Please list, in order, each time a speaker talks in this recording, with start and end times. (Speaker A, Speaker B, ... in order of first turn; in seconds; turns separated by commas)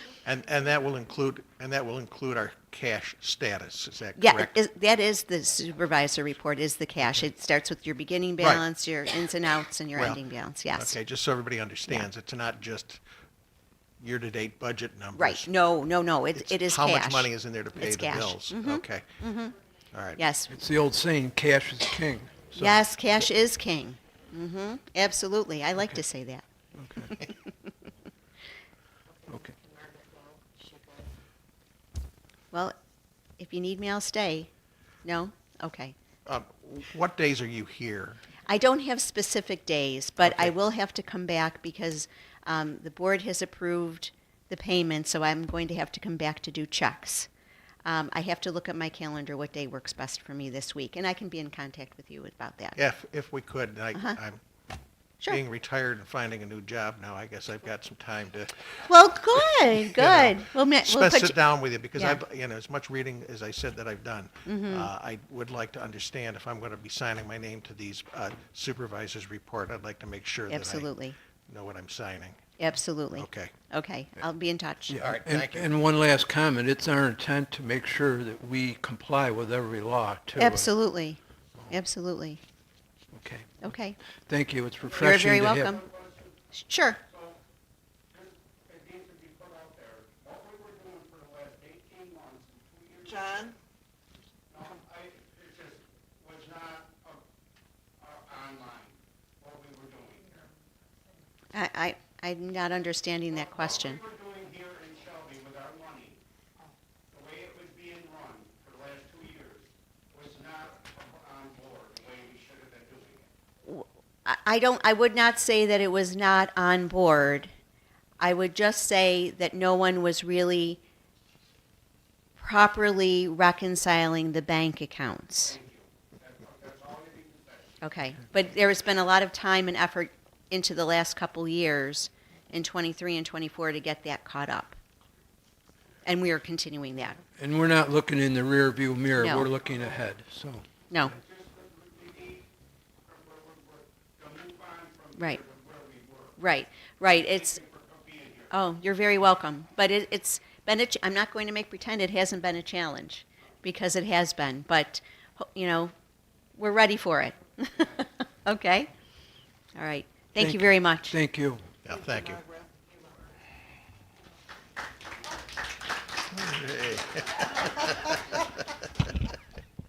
Speaker A: 0.2-4.5, Speaker B: 4.2-11.0, Speaker A: 9.9-10.2, Speaker A: 10.8-13.0, Speaker A: 14.0-15.5, Speaker B: 15.2-19.6, Speaker A: 16.4-19.2, Speaker A: 19.9-20.2, Speaker B: 20.2-20.5, Speaker C: 20.5-22.8, Speaker B: 22.6-26.4, Speaker C: 26.8-27.1, Speaker B: 27.0-27.5, Speaker D: 29.1-31.1, Speaker B: 33.4-34.5, Speaker B: 35.0-36.0, Speaker A: 36.3-38.2, Speaker B: 38.5-47.3, Speaker A: 40.2-40.5, Speaker B: 47.9-52.8, Speaker A: 52.8-54.4, Speaker A: 55.3-58.7, Speaker B: 58.9-61.4, Speaker A: 59.6-70.9, Speaker B: 64.5-64.9, Speaker B: 70.5-71.2, Speaker A: 71.5-72.4, Speaker B: 72.6-75.0, Speaker A: 73.1-73.5, Speaker C: 74.9-80.7, Speaker A: 75.0-75.7, Speaker B: 80.4-82.4, Speaker C: 83.1-83.7, Speaker B: 83.6-84.0, Speaker C: 84.2-85.8, Speaker B: 85.0-85.8, Speaker E: 85.9-86.2, Speaker B: 86.5-87.0, Speaker E: 88.1-93.5, Speaker E: 94.5-97.2, Speaker E: 98.0-100.5, Speaker B: 101.5-104.0, Speaker E: 104.0-106.2, Speaker E: 107.1-113.3, Speaker B: 113.7-117.5, Speaker B: 118.2-120.8, Speaker B: 122.4-125.6, Speaker E: 125.6-127.8, Speaker B: 127.8-134.8, Speaker B: 136.1-137.2, Speaker C: 137.4-140.7, Speaker B: 139.2-139.5, Speaker E: 141.2-142.5, Speaker E: 143.1-146.3, Speaker B: 145.2-145.4, Speaker B: 146.4-147.6, Speaker E: 147.7-148.5, Speaker B: 148.5-155.9, Speaker B: 156.6-158.9, Speaker B: 159.8-161.1, Speaker C: 160.4-161.7, Speaker A: 161.8-162.5, Speaker D: 162.6-162.8, Speaker A: 166.3-168.2